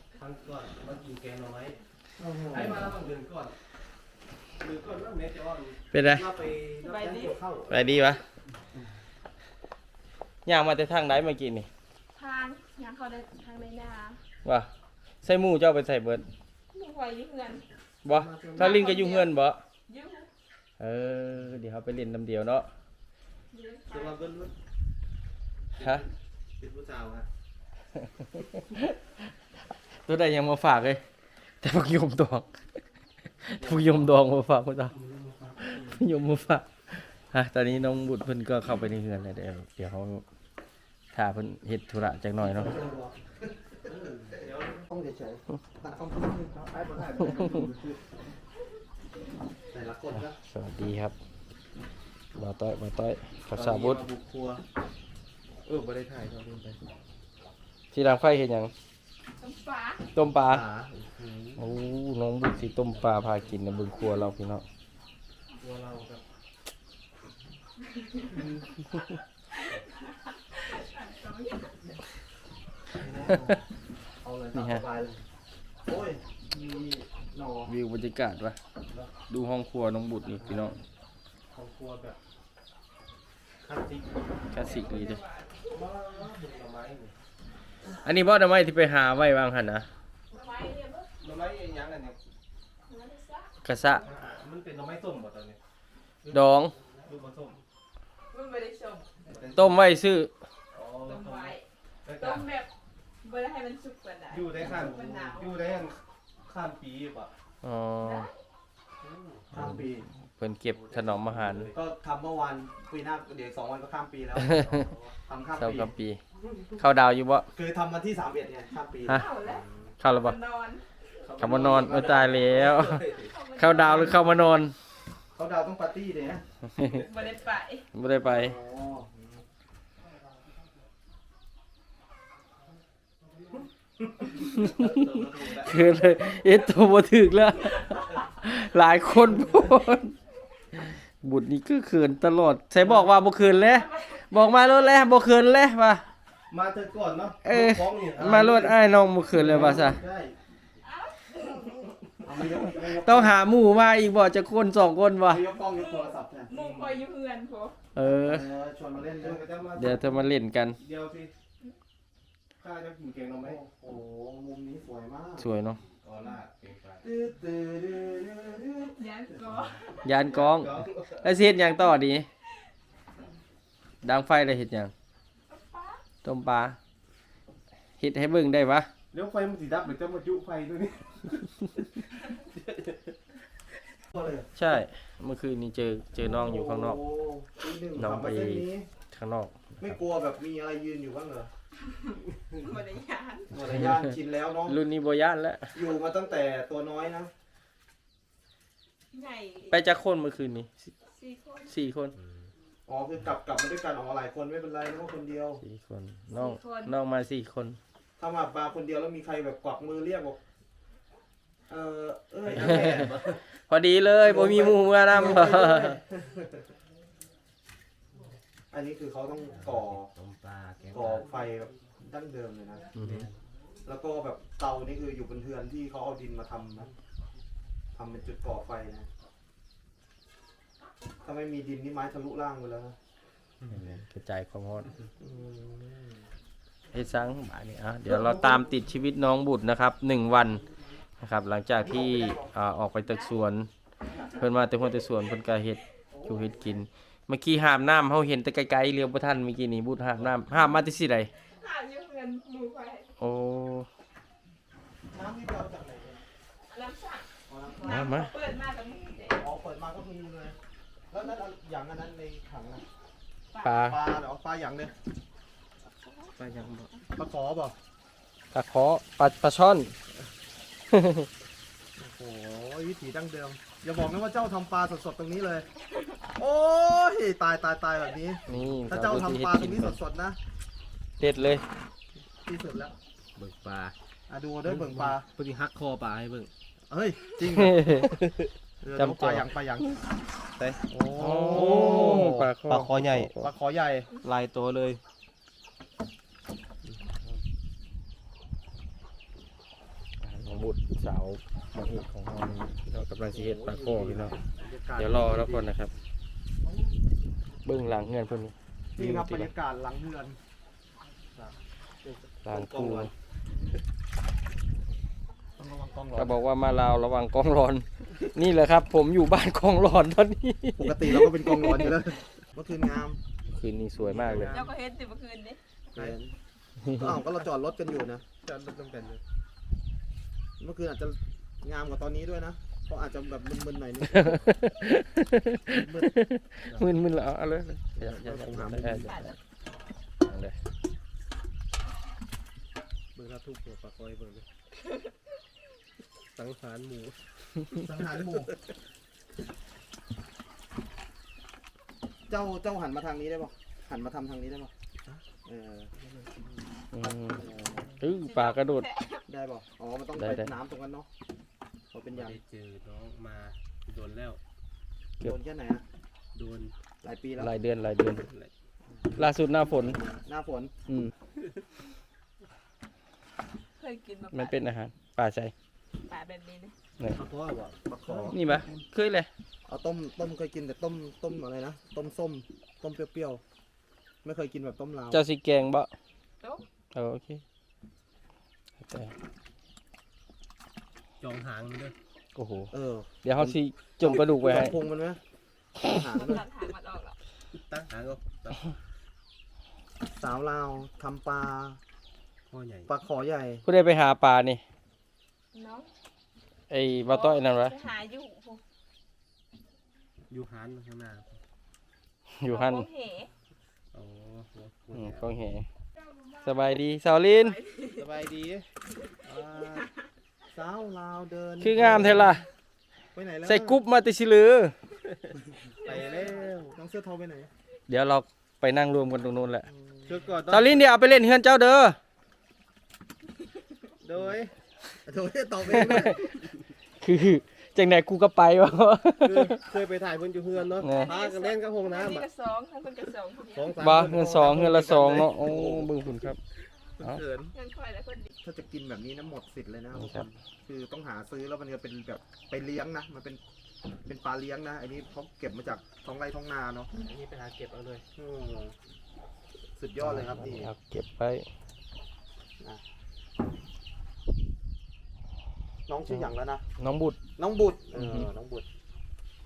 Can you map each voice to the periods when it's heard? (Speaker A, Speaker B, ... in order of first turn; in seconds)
Speaker A: 0.1-1.8, 2.5-3.5, 4.6-7.7, 34.9-35.9, 43.9-44.8, 46.7-48.0, 63.0-63.5, 65.6-66.2, 73.0-73.4, 81.5-82.2, 83.6-84.3, 85.7-87.1, 91.2-92.2, 93.9-95.6, 97.0-97.6, 99.2-99.7, 100.7-102.5, 104.3-107.3, 109.0-109.5, 110.7-111.8, 114.6-115.1, 119.4-119.9, 121.2-123.3, 134.5-135.4, 146.5-148.7, 149.3-149.8, 159.2-161.3, 162.6-163.6, 165.8-167.0, 170.2-171.2, 179.1-183.1, 212.5-213.4, 219.6-221.3, 223.0-223.4, 283.4-283.9, 284.6-286.5, 288.1-288.5, 290.6-290.8, 291.5-293.3, 294.2-295.0, 324.0-324.7, 328.4-329.2, 343.1-344.5, 346.3-348.1, 362.1-364.4, 366.3-366.7, 368.1-368.5, 377.1-378.8, 391.2-391.9, 397.5-398.8, 402.5-402.9, 410.3-411.4, 413.9-415.3, 417.9-418.7, 425.8-426.8, 430.0-430.8, 434.0-434.5, 439.2-442.3, 443.5-444.4, 457.0-458.1
Speaker B: 2.2-3.0, 18.1-18.9, 23.9-24.5, 26.6-27.2, 33.6-34.1, 42.4-47.8, 49.7-50.4, 53.5-54.6, 55.7-56.8, 60.5-61.6, 73.0-73.5, 74.2-75.1, 75.8-77.7, 109.5-110.0, 111.7-114.7, 115.2-115.9, 117.5-119.2, 121.4-122.8, 125.3-126.4, 128.2-129.4, 134.4-135.7, 148.1-148.7, 149.3-150.3, 152.2-153.4, 155.3-156.9, 158.0-159.5, 163.4-165.5, 167.0-169.0, 184.1-184.5, 186.2-188.9, 189.8-191.5, 193.5-194.8, 195.7-197.3, 202.9-205.6, 208.2-210.4, 211.7-213.3, 214.2-216.7, 218.7-220.1, 220.9-222.9, 223.8-226.9, 227.9-229.1, 231.2-233.0, 235.2-236.2, 238.1-238.7, 241.8-242.5, 246.1-246.8, 255.1-256.2, 257.5-258.1, 259.4-260.6, 261.1-262.8, 263.7-264.9, 267.1-267.8, 272.0-275.7, 276.4-280.4, 282.4-283.0, 284.3-285.3, 286.9-288.2, 288.8-290.0, 290.9-292.5, 293.4-294.1, 303.3-305.7, 308.9-310.4, 311.4-313.1, 315.6-316.3, 320.8-323.2, 325.9-326.3, 326.9-328.2, 330.6-334.5, 335.7-336.1, 338.0-339.1, 347.7-348.5, 352.3-355.9, 357.2-357.9, 359.3-361.1, 361.9-362.4, 365.2-365.8, 367.0-367.6, 369.8-370.7, 377.9-378.4, 379.6-383.4, 384.2-385.2, 392.7-395.2, 395.8-396.4, 400.1-401.8, 402.9-403.6, 419.2-419.9, 420.5-422.4, 423.1-423.8, 425.8-426.2, 426.7-427.5, 429.7-430.1, 435.0-436.3, 443.8-446.0, 447.0-447.5, 448.4-453.4, 454.1-456.9, 458.1-458.8, 459.8-460.7, 465.9-466.6, 467.4-468.6
Speaker C: 5.9-6.3, 7.7-8.2, 10.4-11.7, 14.4-14.7, 15.2-16.3, 18.0-19.6, 20.8-22.7, 25.8-26.0, 28.4-29.0, 30.0-31.0, 31.6-32.8, 33.4-34.9, 35.6-40.2, 41.1-42.8, 50.1-51.1, 52.3-54.0, 57.9-58.7, 60.1-60.6, 61.6-64.7, 74.5-74.8, 77.7-78.6, 79.3-80.8, 84.5-85.2, 88.0-89.9, 93.6-94.0, 96.3-96.7, 99.5-100.3, 107.6-108.3, 109.5-109.8, 110.4-111.7, 114.3-114.9, 115.6-116.2, 116.8-117.5, 120.0-120.3, 121.4-123.0, 123.5-124.7, 126.7-127.0, 127.9-128.6, 134.4-140.2, 141.2-146.1, 147.4-150.0, 152.8-155.4, 157.9-158.5, 159.8-160.8, 165.4-165.8, 170.0-172.3, 174.0-174.9, 176.2-176.8, 178.0-178.9, 184.6-187.0, 188.0-189.8, 193.7-194.1, 194.7-195.8, 199.7-200.9, 201.7-202.2, 205.6-207.8, 213.7-216.0, 223.0-223.2, 233.7-234.9, 236.9-240.6, 241.2-243.7, 244.3-251.3, 253.2-253.9, 257.9-258.3, 263.6-264.0, 266.4-266.8, 268.5-269.9, 270.9-271.3, 278.5-280.0, 281.2-281.6, 287.4-288.2, 289.0-289.5, 291.1-293.5, 300.2-304.4, 305.0-305.9, 307.6-309.5, 312.4-313.1, 316.1-321.9, 323.5-324.5, 334.1-339.3, 340.2-340.6, 356.9-358.9, 360.2-360.5, 367.4-368.3, 369.2-370.0, 370.9-371.1, 374.3-375.5, 378.3-379.3, 385.1-385.9, 386.9-387.4, 388.8-389.1, 392.3-392.7, 393.2-394.8, 403.6-404.6, 406.7-407.8, 412.3-412.9, 414.9-415.6, 416.4-417.6, 421.6-422.4, 423.4-424.8, 427.9-429.7, 430.5-432.0, 435.7-436.4, 437.0-439.6, 440.8-441.1, 443.8-446.4, 449.9-450.3, 460.0-461.5, 466.8-467.2
Speaker D: 6.8-7.4, 12.2-14.2, 16.7-17.6, 18.5-19.3, 19.9-20.3, 23.5-24.3, 59.4-60.1, 70.3-72.0, 84.5-85.7, 90.3-91.1, 92.9-93.5, 98.3-99.1, 101.0-101.7, 102.2-102.7, 103.2-105.6, 108.0-108.4, 119.1-120.8, 123.0-124.4, 126.9-127.9, 143.7-144.2, 150.8-151.9, 155.7-157.8, 168.9-170.0, 175.5-176.0, 192.5-193.6, 199.1-199.8, 201.1-201.7, 206.3-206.9, 243.1-243.3, 251.4-253.1, 256.7-259.4, 263.5-263.8, 324.4-325.6, 339.0-339.4, 358.2-359.2, 373.8-374.6, 376.0-376.8, 386.4-386.7, 395.9-397.2, 405.5-405.9, 407.0-408.6, 412.4-413.3, 417.4-418.0, 425.8-426.4, 440.8-443.8, 447.5-448.3